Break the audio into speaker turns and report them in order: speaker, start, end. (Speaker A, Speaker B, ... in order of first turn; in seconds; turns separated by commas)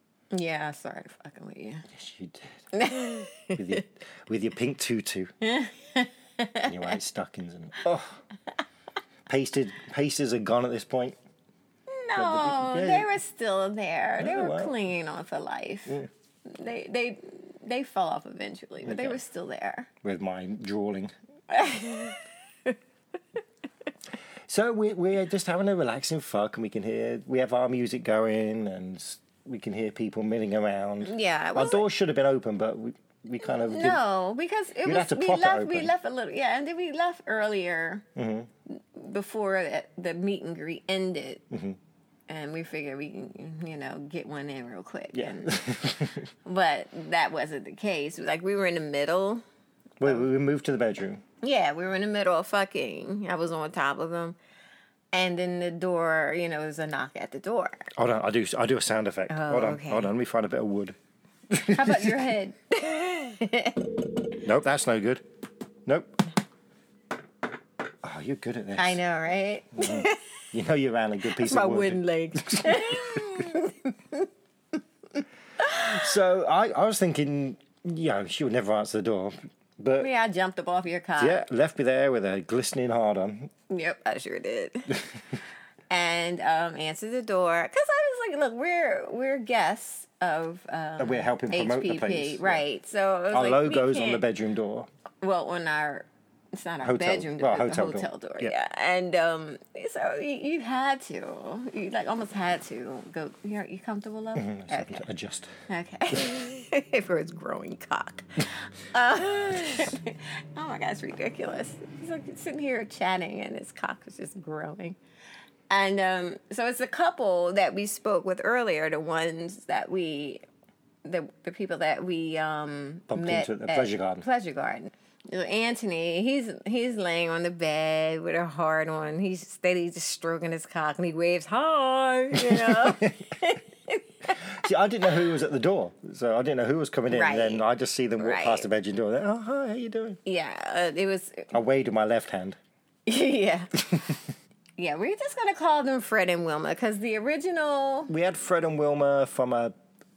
Speaker A: 0.3-1.9, Speaker B: 1.9-2.7, Speaker A: 2.7-3.6, Speaker B: 3.3-5.3, Speaker A: 5.4-6.7, Speaker B: 6.6-8.2, Speaker B: 9.3-11.2, Speaker A: 11.9-19.9, Speaker B: 12.2-13.1, Speaker B: 14.2-14.8, Speaker B: 18.8-19.2, Speaker B: 20.0-21.1, Speaker A: 21.5-22.7, Speaker B: 24.5-34.0, Speaker A: 31.0-31.9, Speaker A: 33.5-38.1, Speaker B: 34.8-35.9, Speaker B: 38.2-38.5, Speaker A: 38.7-41.4, Speaker B: 41.5-41.8, Speaker A: 42.3-45.6, Speaker B: 45.1-46.3, Speaker A: 46.5-49.4, Speaker B: 50.0-51.2, Speaker A: 51.4-54.4, Speaker A: 55.1-57.9, Speaker B: 58.0-61.0, Speaker A: 59.3-60.1, Speaker B: 61.5-62.3, Speaker A: 61.7-63.9, Speaker B: 64.4-65.2, Speaker B: 65.9-66.2, Speaker B: 68.0-69.0, Speaker A: 68.8-70.2, Speaker B: 69.8-73.5, Speaker A: 71.3-74.3, Speaker A: 75.6-76.0, Speaker B: 75.7-80.1, Speaker A: 80.0-81.4, Speaker B: 81.2-83.5, Speaker A: 83.7-85.1, Speaker A: 85.9-94.2, Speaker B: 91.0-92.6, Speaker B: 93.3-94.9, Speaker A: 95.2-105.0, Speaker B: 96.8-98.5, Speaker B: 104.4-105.5, Speaker A: 105.7-115.0, Speaker A: 115.7-120.4, Speaker A: 121.0-134.4, Speaker B: 123.1-124.2, Speaker B: 132.3-133.2, Speaker B: 134.4-140.2, Speaker A: 137.1-137.7, Speaker A: 138.2-138.7, Speaker A: 140.2-141.5, Speaker B: 141.5-142.6, Speaker A: 143.1-143.8, Speaker A: 144.8-148.1, Speaker B: 148.1-149.8